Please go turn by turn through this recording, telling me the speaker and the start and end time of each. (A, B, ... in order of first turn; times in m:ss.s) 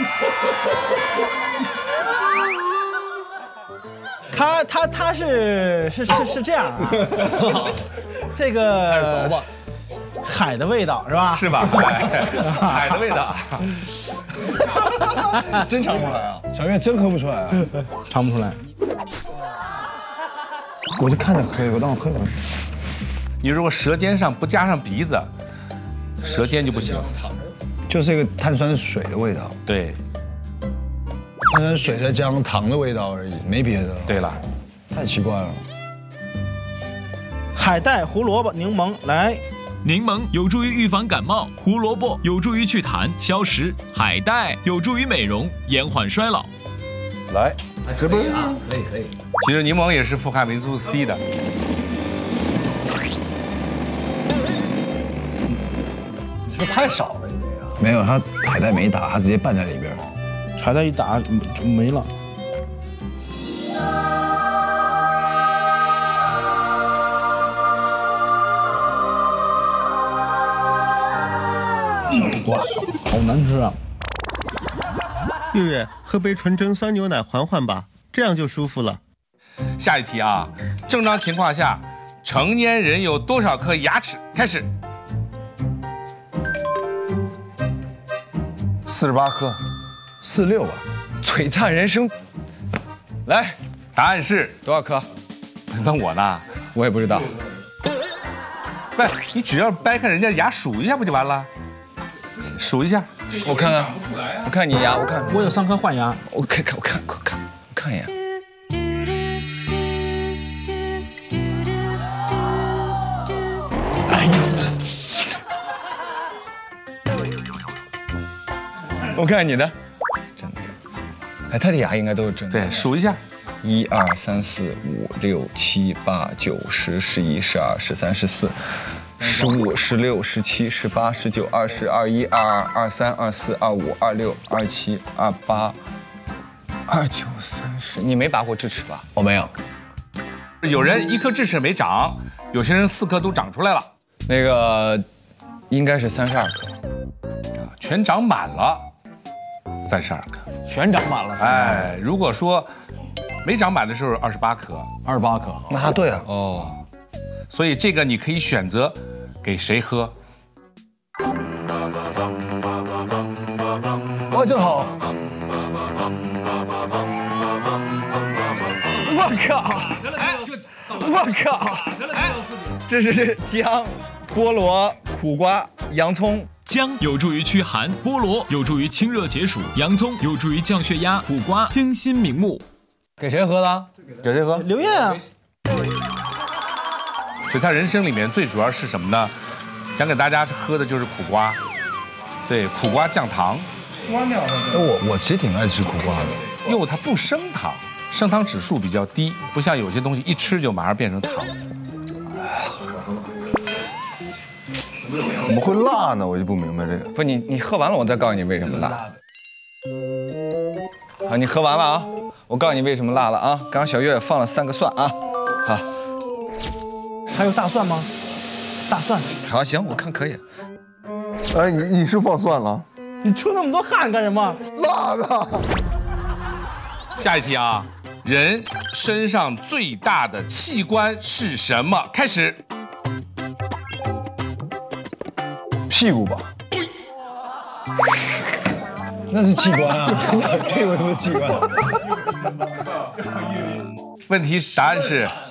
0:04.3-0:07.5 A
0:07.2-0:07.8 B
0:08.4-0:09.4 A
0:08.8-0:09.5 B
0:10.2-0:12.8 A
0:11.3-0:13.7 C
0:15.7-0:16.4 D
0:16.5-0:17.7 E
0:18.1-0:18.6 A
0:21.0-0:22.3 E
0:23.4-0:25.3 C
0:26.2-0:27.1 C
0:27.9-0:29.5 E
0:29.7-0:30.0 C
0:31.5-0:34.2 E
0:34.1-0:34.4 C
0:34.9-0:35.6 E
0:37.6-0:39.4 A
0:39.8-0:46.5 F
0:47.3-0:48.6 D
0:47.9-0:49.1 B
0:49.4-0:51.2 C
0:56.5-0:57.8 B
0:57.8-1:00.0 E
1:00.6-1:02.1 A
1:12.2-1:13.8 A
1:15.5-1:19.0 G
1:19.8-1:24.7 C
1:28.9-1:29.6 D
1:30.2-1:30.8 E
1:31.2-1:32.1 H
1:33.3-1:33.6 H
1:34.0-1:34.6 C
1:34.6-1:35.1 H
1:35.7-1:36.4 C
1:36.7-1:37.4 H
1:39.0-1:41.5 C
1:42.5-1:44.4 C
1:43.4-1:45.6 H
1:45.3-1:46.2 A
1:46.3-1:48.1 H
1:59.1-1:59.8 H
2:00.4-2:00.7 H
2:01.5-2:02.9 H
2:02.5-2:03.2 C
2:03.6-2:08.6 H
2:09.2-2:15.8 H
2:16.9-2:19.2 H
2:19.2-2:19.5 E
2:20.6-2:23.9 C
2:24.3-2:25.0 H
2:25.7-2:26.7 H
2:27.6-2:28.9 C
2:29.8-2:30.4 C
2:30.7-2:32.0 B
2:31.4-2:32.7 C
2:33.4-2:34.9 C
2:35.1-2:35.6 B
2:35.7-2:36.3 E
2:36.3-2:36.8 H
2:37.5-2:40.2 C
2:44.3-2:45.0 E
2:49.0-2:50.2 H
2:50.9-2:56.5 H
2:56.6-3:02.6 F
3:03.2-3:03.9 B
3:04.2-3:04.7 D
3:04.6-3:05.2 A
3:07.5-3:09.4 C
3:09.9-3:11.6 C
3:12.5-3:13.7 C
3:14.7-3:16.5 E
3:16.6-3:21.5 C
3:25.3-3:27.1 D
3:27.2-3:29.1 H
3:31.2-3:35.9 H
3:37.3-3:38.1 A
3:38.9-3:39.3 A
3:39.4-3:40.4 H
3:41.5-3:42.9 D
3:43.2-3:44.6 A
3:44.8-3:45.6 D
3:47.2-3:52.6 C
3:55.9-3:56.5 D
3:59.3-4:01.8 E
4:04.3-4:05.4 C